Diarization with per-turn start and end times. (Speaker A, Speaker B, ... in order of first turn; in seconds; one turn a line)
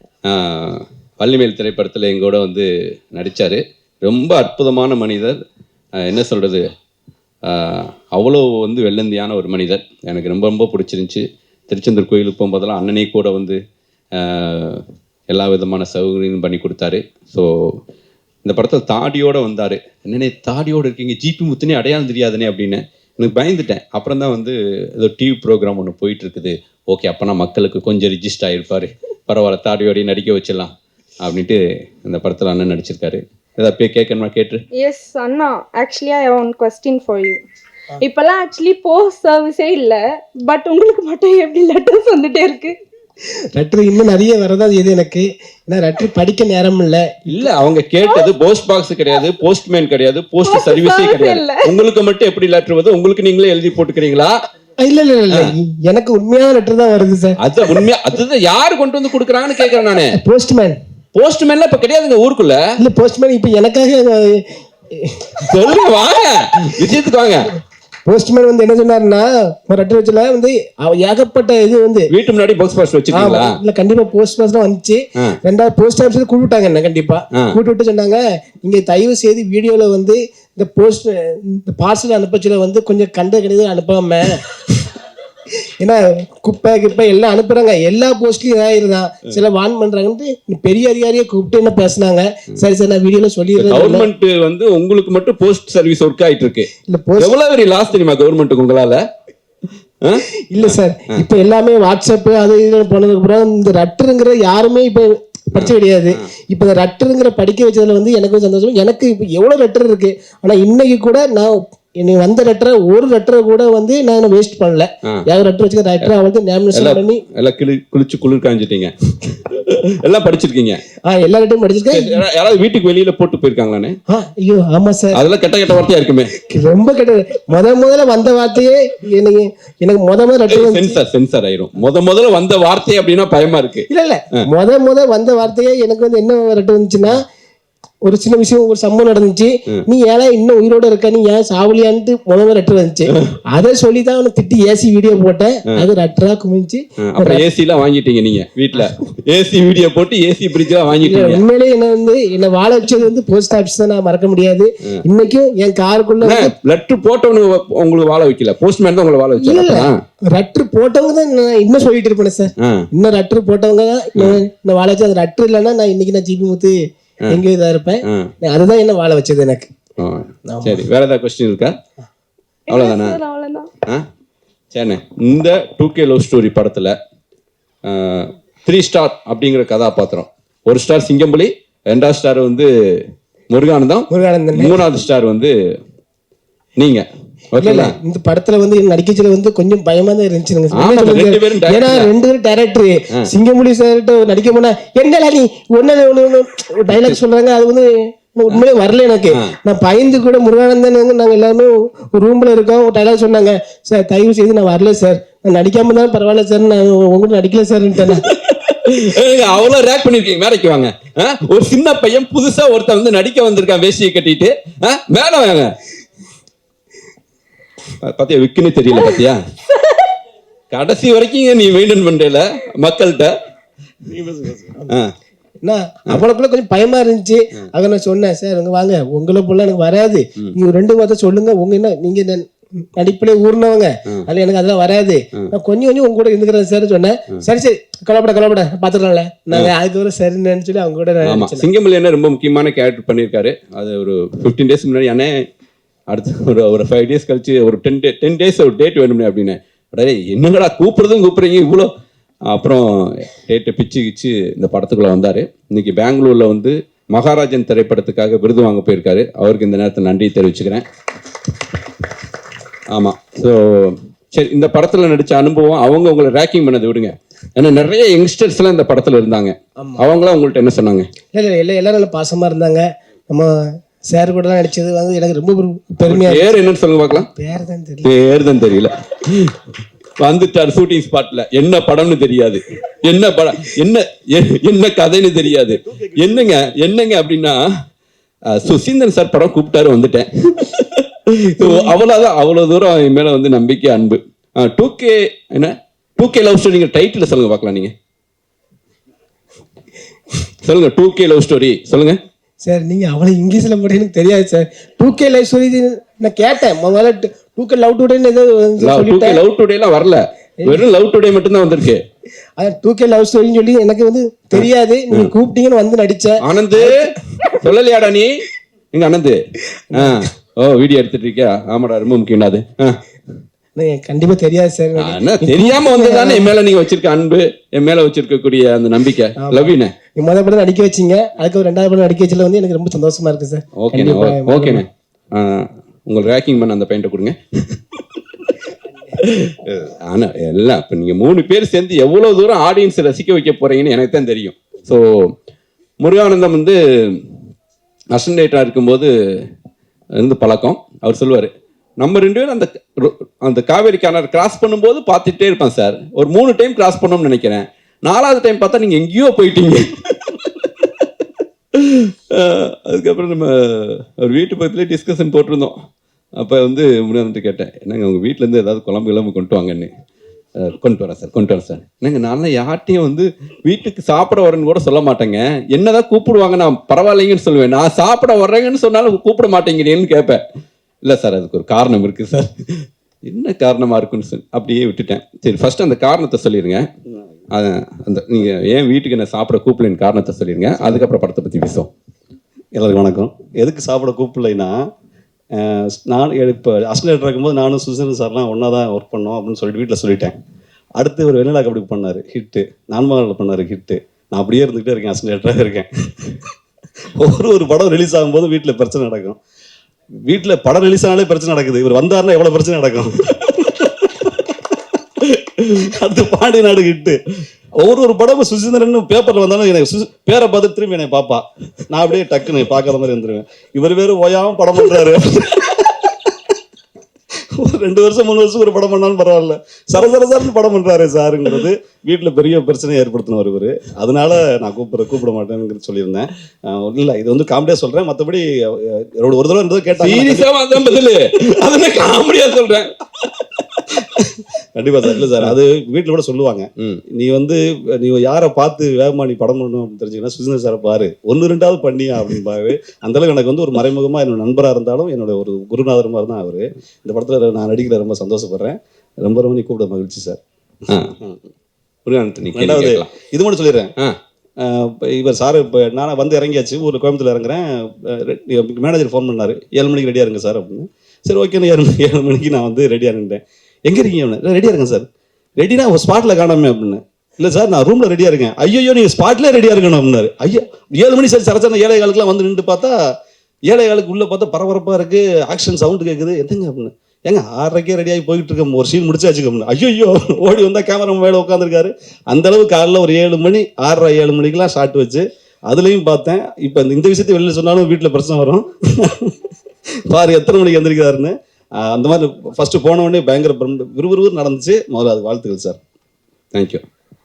Speaker A: 0.3-5.4
Speaker A: 6.0-6.7
Speaker A: 7.5-13.6
Speaker A: 14.2-17.5
Speaker A: 18.4-34.6
Speaker B: 34.7-37.4
Speaker B: 38.0-42.8
Speaker C: 43.5-47.1
Speaker A: 47.3-54.3
Speaker B: 50.4-51.7
Speaker C: 54.8-57.4
Speaker A: 57.4-60.2
Speaker C: 60.1-60.8
Speaker A: 61.1-62.6
Speaker C: 62.8-65.5
Speaker A: 65.5-67.6
Speaker C: 68.0-72.1
Speaker A: 72.1-73.6
Speaker C: 73.1-84.8
Speaker C: 85.8-94.1
Speaker A: 93.6-99.0
Speaker C: 96.9-97.4
Speaker A: 100.0-101.2
Speaker C: 100.5-117.2
Speaker A: 105.5-106.3
Speaker A: 116.7-120.8
Speaker C: 121.0-122.2
Speaker A: 121.9-124.0
Speaker C: 124.1-125.2
Speaker A: 125.1-126.3
Speaker C: 126.3-131.0
Speaker A: 130.5-134.4
Speaker C: 133.9-137.2
Speaker C: 138.0-147.4
Speaker A: 143.1-143.3
Speaker A: 147.0-151.4
Speaker C: 150.9-156.5
Speaker A: 156.2-160.0
Speaker C: 159.4-166.7
Speaker A: 162.6-162.9
Speaker A: 164.2-164.4
Speaker C: 167.3-169.7
Speaker A: 168.0-168.3
Speaker A: 170.0-171.7
Speaker C: 170.5-170.8
Speaker A: 172.7-173.2
Speaker B: 172.7-173.7
Speaker A: 174.7-176.9
Speaker A: 177.8-182.7
Speaker A: 183.5-185.5
Speaker C: 184.1-184.8
Speaker A: 186.8-187.9
Speaker C: 187.6-208.2
Speaker A: 190.7-192.1
Speaker A: 208.1-215.8
Speaker A: 218.0-219.4
Speaker B: 219.8-220.0
Speaker A: 220.7-223.3
Speaker D: 224.1-224.8
Speaker C: 225.6-241.7
Speaker A: 241.2-245.4
Speaker A: 246.1-251.9
Speaker A: 252.5-260.8
Speaker A: 262.9-271.1
Speaker C: 271.3-273.5
Speaker C: 274.1-276.6
Speaker A: 276.0-277.3
Speaker C: 277.1-278.1
Speaker A: 278.0-279.6
Speaker A: 280.2-287.6
Speaker D: 285.7-286.6
Speaker A: 288.5-297.9
Speaker A: 300.6-302.2
Speaker C: 302.6-309.4
Speaker A: 308.8-312.0
Speaker C: 312.6-317.2
Speaker A: 314.5-315.3
Speaker A: 316.4-317.0
Speaker A: 317.5-318.3
Speaker A: 318.9-319.4
Speaker A: 319.9-323.0
Speaker C: 319.9-320.2
Speaker C: 323.8-326.5
Speaker A: 325.0-329.9
Speaker C: 329.4-334.8
Speaker A: 333.8-337.8
Speaker A: 339.1-345.3
Speaker A: 346.0-347.2
Speaker A: 348.1-349.1
Speaker A: 350.2-361.1
Speaker A: 361.7-365.8
Speaker A: 366.4-369.9
Speaker A: 370.6-380.4
Speaker A: 381.0-386.8
Speaker A: 387.5-391.9
Speaker D: 390.8-391.0
Speaker D: 392.8-394.9
Speaker D: 395.5-400.4
Speaker D: 401.0-406.4
Speaker D: 407.1-409.4
Speaker D: 410.2-426.4
Speaker D: 427.5-440.4
Speaker A: 440.0-442.9
Speaker D: 444.1-460.4
Speaker A: 445.1-445.5
Speaker A: 460.9-461.1
Speaker D: 461.2-461.4
Speaker A: 462.1-463.1
Speaker D: 462.5-463.9
Speaker D: 464.6-475.1
Speaker D: 475.6-483.1
Speaker D: 483.6-499.4
Speaker D: 500.1-505.8
Speaker A: 506.5-506.8